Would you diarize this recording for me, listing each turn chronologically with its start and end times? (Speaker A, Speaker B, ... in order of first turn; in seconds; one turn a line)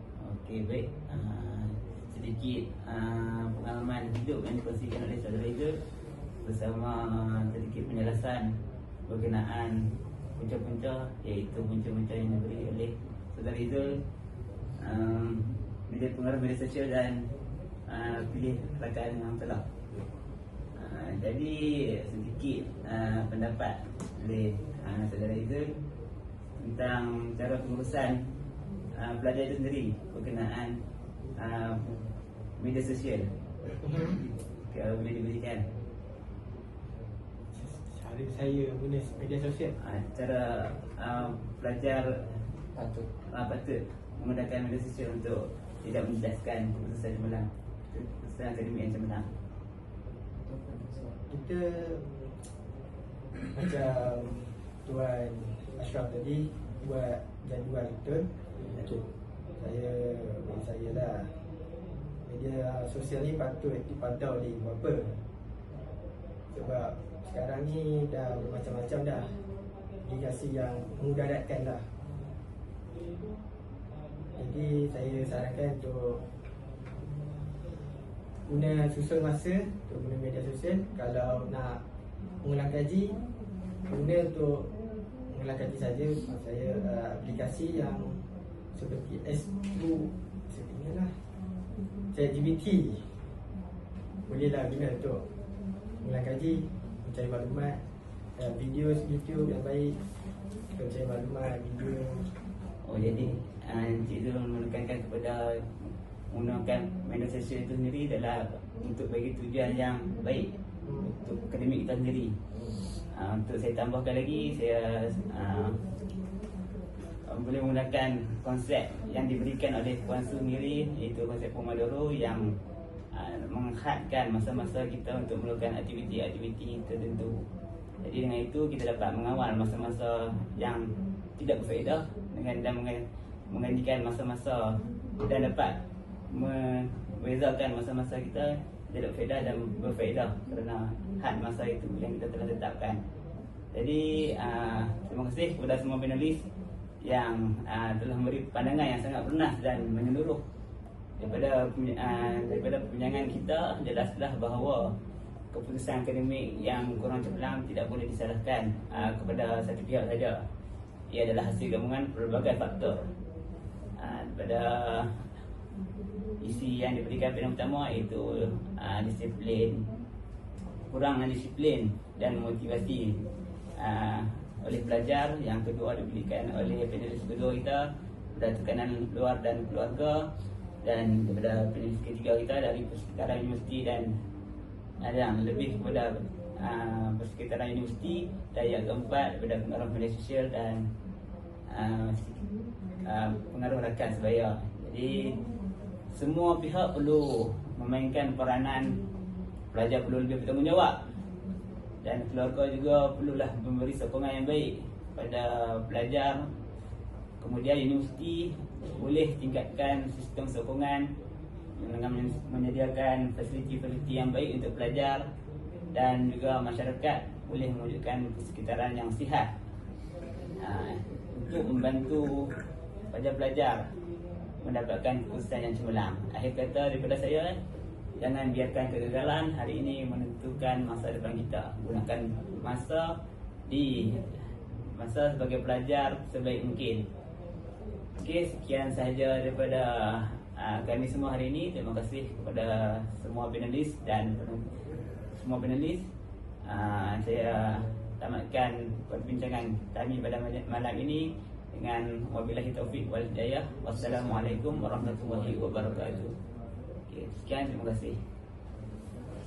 Speaker A: 0.2-5.8
Speaker A: 6.4-8.5
Speaker A: 9.1-14.0
Speaker A: 14.8-17.3
Speaker A: 17.9-19.6
Speaker A: 20.8-25.7
Speaker A: 26.6-28.3
Speaker A: 28.9-30.8
Speaker A: 31.4-32.0
Speaker A: 32.6-33.3
Speaker B: 33.8-34.2
Speaker A: 34.7-35.7
Speaker B: 37.5-39.7
Speaker A: 39.8-42.2
Speaker A: 43.3-49.3
Speaker B: 51.3-52.0
Speaker B: 53.5-58.3
Speaker C: 58.6-59.0
Speaker B: 59.6-61.3
Speaker B: 62.2-65.2
Speaker B: 66.5-69.4
Speaker B: 70.0-71.9
Speaker B: 74.4-76.2
Speaker B: 78.5-81.8
Speaker B: 82.4-83.2
Speaker B: 83.9-84.7
Speaker B: 85.3-91.1
Speaker B: 92.1-93.2
Speaker B: 94.3-95.2
Speaker B: 96.0-97.8
Speaker B: 98.3-100.0
Speaker B: 100.7-102.3
Speaker A: 102.8-105.7
Speaker B: 103.0-103.4
Speaker A: 106.3-112.3
Speaker B: 110.8-111.1
Speaker A: 113.1-115.8
Speaker A: 117.2-122.5
Speaker A: 123.1-127.5
Speaker A: 128.0-143.0
Speaker A: 143.7-146.5
Speaker A: 147.0-150.4
Speaker A: 151.2-154.9
Speaker A: 155.5-160.4
Speaker A: 161.1-163.1
Speaker A: 164.0-165.2
Speaker A: 166.4-169.9
Speaker A: 170.9-173.2
Speaker A: 173.8-180.2
Speaker A: 180.8-184.1
Speaker A: 185.0-190.8
Speaker A: 191.7-192.4
Speaker A: 193.0-195.4
Speaker A: 196.1-199.0
Speaker A: 199.7-201.0
Speaker A: 202.0-206.5
Speaker A: 207.4-211.1
Speaker A: 211.8-215.3
Speaker A: 215.9-219.5
Speaker A: 220.6-222.6
Speaker A: 223.1-223.9
Speaker A: 224.6-227.6
Speaker A: 228.2-233.1
Speaker A: 233.7-234.4
Speaker A: 234.9-237.1
Speaker A: 238.2-244.7
Speaker A: 245.3-246.1
Speaker A: 246.7-256.3
Speaker C: 254.0-256.4
Speaker A: 257.1-258.2